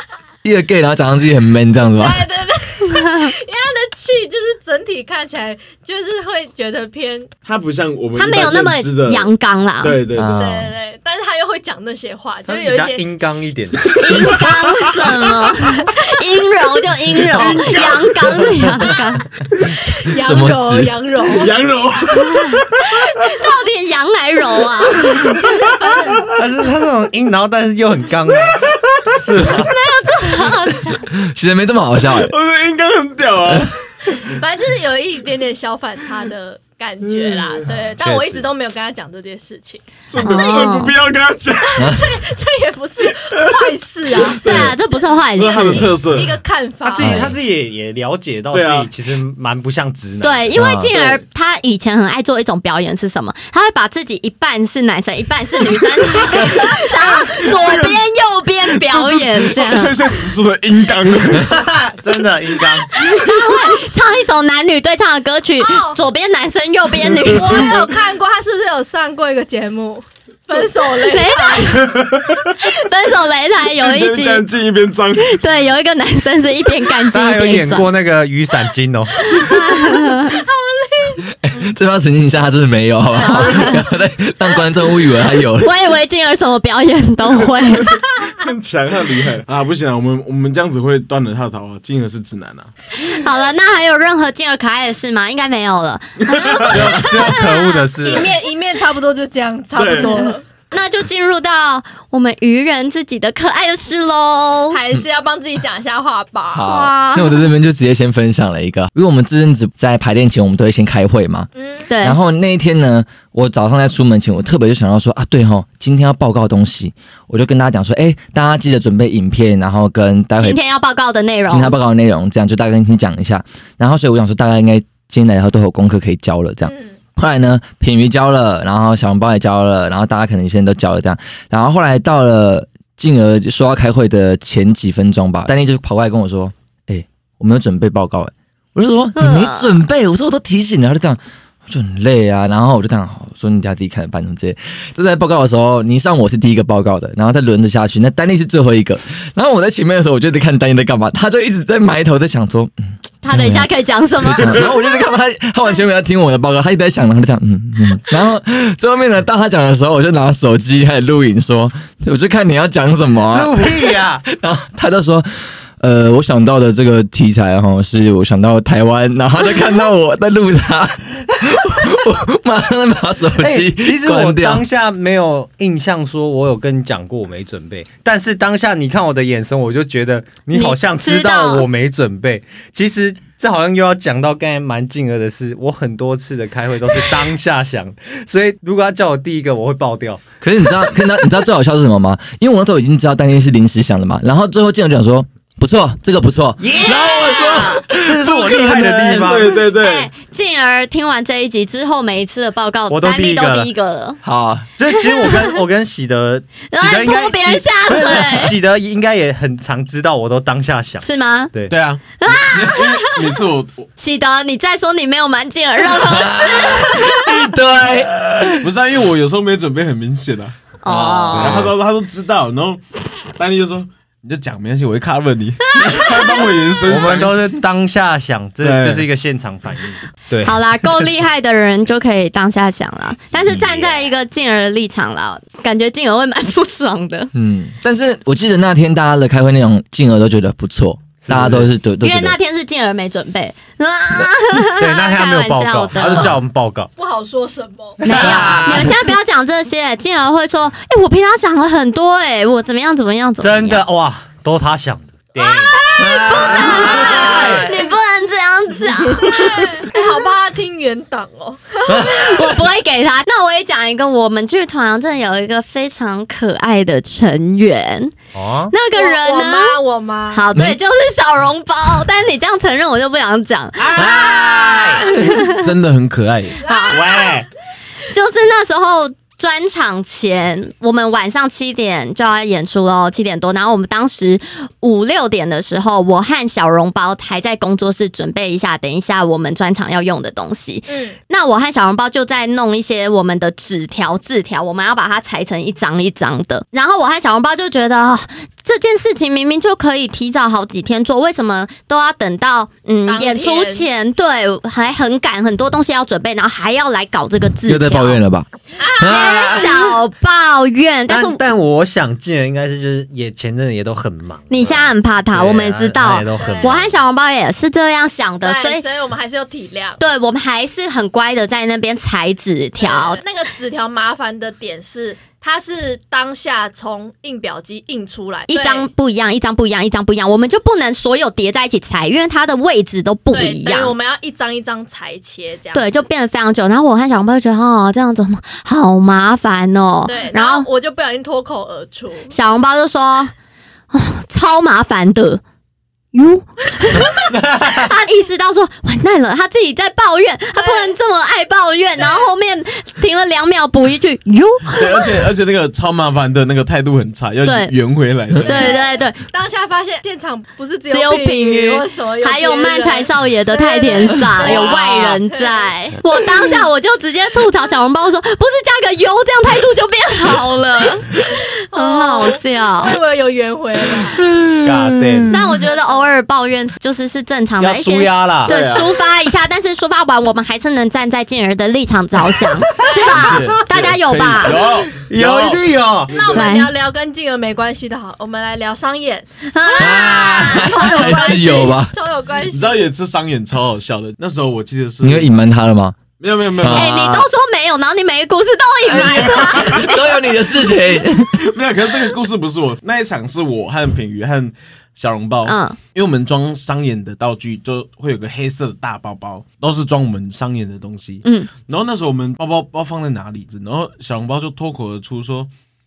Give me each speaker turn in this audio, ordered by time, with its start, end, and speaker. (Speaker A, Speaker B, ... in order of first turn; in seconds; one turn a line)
Speaker A: 0.4-2.2
Speaker B: 1.9-7.3
Speaker C: 2.9-3.3
Speaker D: 7.4-9.3
Speaker C: 8.2-10.0
Speaker D: 9.8-10.6
Speaker A: 10.1-10.7
Speaker B: 10.3-13.0
Speaker E: 12.5-13.9
Speaker C: 13.9-19.2
Speaker D: 14.1-14.6
Speaker B: 15.4-16.1
Speaker D: 17.1-18.6
Speaker B: 19.6-21.6
Speaker A: 20.1-20.9
Speaker D: 21.2-22.6
Speaker C: 22.1-25.4
Speaker B: 25.0-26.3
Speaker E: 26.3-29.7
Speaker C: 29.4-31.1
Speaker A: 31.1-32.3
Speaker D: 32.1-33.9
Speaker B: 34.1-40.7
Speaker E: 38.0-38.4
Speaker D: 40.1-41.9
Speaker C: 40.2-40.9
Speaker B: 41.6-47.2
Speaker A: 41.8-42.2
Speaker D: 43.3-43.6
Speaker D: 44.2-44.7
Speaker C: 44.4-45.9
Speaker D: 45.4-46.4
Speaker E: 46.8-50.6
Speaker A: 47.0-47.3
Speaker D: 48.5-48.9
Speaker C: 50.2-60.0
Speaker A: 50.6-50.9
Speaker D: 50.9-51.2
Speaker D: 56.5-58.0
Speaker D: 58.8-61.6
Speaker E: 61.4-62.9
Speaker C: 62.9-67.8
Speaker B: 65.6-66.0
Speaker B: 67.3-72.0
Speaker C: 70.8-74.5
Speaker D: 73.8-75.4
Speaker C: 75.2-77.9
Speaker E: 77.1-79.2
Speaker B: 79.2-81.3
Speaker C: 79.2-80.4
Speaker A: 81.4-85.7
Speaker C: 83.2-83.8
Speaker C: 85.6-88.0
Speaker D: 88.4-92.7
Speaker C: 93.0-97.5
Speaker D: 96.2-97.0
Speaker E: 96.7-98.3
Speaker B: 96.9-100.4
Speaker D: 99.7-100.2
Speaker C: 100.7-104.8
Speaker B: 104.7-106.8
Speaker A: 106.5-111.5
Speaker C: 106.6-107.4
Speaker B: 111.5-111.9
Speaker C: 111.9-112.2
Speaker A: 112.0-120.6
Speaker C: 120.4-121.8
Speaker A: 121.5-153.7
Speaker B: 126.6-126.9
Speaker C: 139.2-139.7
Speaker C: 153.2-154.8
Speaker A: 154.2-165.3
Speaker E: 163.3-164.2
Speaker A: 165.8-174.6
Speaker E: 173.4-190.2
Speaker C: 180.5-181.7
Speaker A: 190.4-197.8
Speaker E: 196.6-199.6
Speaker D: 196.8-200.1
Speaker C: 199.7-204.2
Speaker E: 202.9-203.7
Speaker A: 204.2-204.7
Speaker E: 204.8-211.7
Speaker C: 206.7-208.6
Speaker C: 211.0-211.5
Speaker D: 211.7-213.9
Speaker C: 212.2-213.2
Speaker C: 214.0-217.1
Speaker A: 216.0-218.7
Speaker D: 218.6-220.5
Speaker C: 220.8-221.7
Speaker A: 220.9-221.7
Speaker D: 221.3-227.4
Speaker C: 225.7-226.4
Speaker E: 226.8-231.1
Speaker D: 228.6-229.1
Speaker C: 230.4-237.3
Speaker E: 233.6-234.0
Speaker A: 237.3-242.4
Speaker E: 241.2-241.7
Speaker C: 242.0-246.3
Speaker E: 244.7-246.9
Speaker B: 246.9-248.0
Speaker E: 248.0-248.9
Speaker C: 248.0-253.8
Speaker A: 248.1-248.9
Speaker E: 253.4-257.6
Speaker C: 255.4-259.7
Speaker A: 256.0-257.7
Speaker B: 259.2-262.4
Speaker E: 261.9-262.2
Speaker C: 262.0-268.1
Speaker E: 268.3-268.7
Speaker C: 268.7-269.8
Speaker B: 268.9-270.4
Speaker C: 270.3-275.6
Speaker A: 270.5-270.8
Speaker E: 273.8-275.1
Speaker A: 274.0-274.4
Speaker D: 275.5-276.6
Speaker B: 276.6-277.2
Speaker C: 276.6-277.3
Speaker E: 276.9-277.5
Speaker C: 278.1-308.2
Speaker B: 290.9-291.2
Speaker B: 303.1-303.9
Speaker A: 307.7-308.5
Speaker B: 308.8-309.7
Speaker C: 308.9-311.4
Speaker A: 309.0-309.7
Speaker E: 311.1-316.9
Speaker C: 314.5-318.8
Speaker B: 316.4-316.9
Speaker B: 318.4-320.0
Speaker C: 320.0-323.2
Speaker B: 322.8-328.9
Speaker C: 328.5-333.9
Speaker B: 333.3-335.9
Speaker C: 335.7-340.7
Speaker B: 340.1-342.3
Speaker C: 342.3-343.3
Speaker C: 343.9-345.4
Speaker C: 346.1-355.1
Speaker E: 347.3-347.8
Speaker B: 350.5-350.9
Speaker B: 352.0-352.3
Speaker D: 354.7-358.7
Speaker C: 357.4-357.7
Speaker C: 358.4-359.2
Speaker B: 358.4-366.6
Speaker C: 360.9-373.0
Speaker B: 371.7-374.2
Speaker A: 374.3-375.3
Speaker E: 374.5-375.4
Speaker C: 375.3-384.6
Speaker B: 375.5-376.1
Speaker E: 377.6-378.5
Speaker D: 378.4-378.9
Speaker D: 382.9-386.5
Speaker E: 384.9-386.1
Speaker B: 386.1-392.9
Speaker C: 386.3-386.7
Speaker C: 389.5-391.7
Speaker A: 389.8-391.9
Speaker D: 392.5-395.4
Speaker A: 395.0-396.0
Speaker D: 396.2-396.9
Speaker A: 396.5-397.3
Speaker C: 396.7-399.9
Speaker A: 398.9-401.4
Speaker D: 399.5-399.8
Speaker D: 401.4-415.5
Speaker C: 405.4-405.8
Speaker C: 411.2-411.5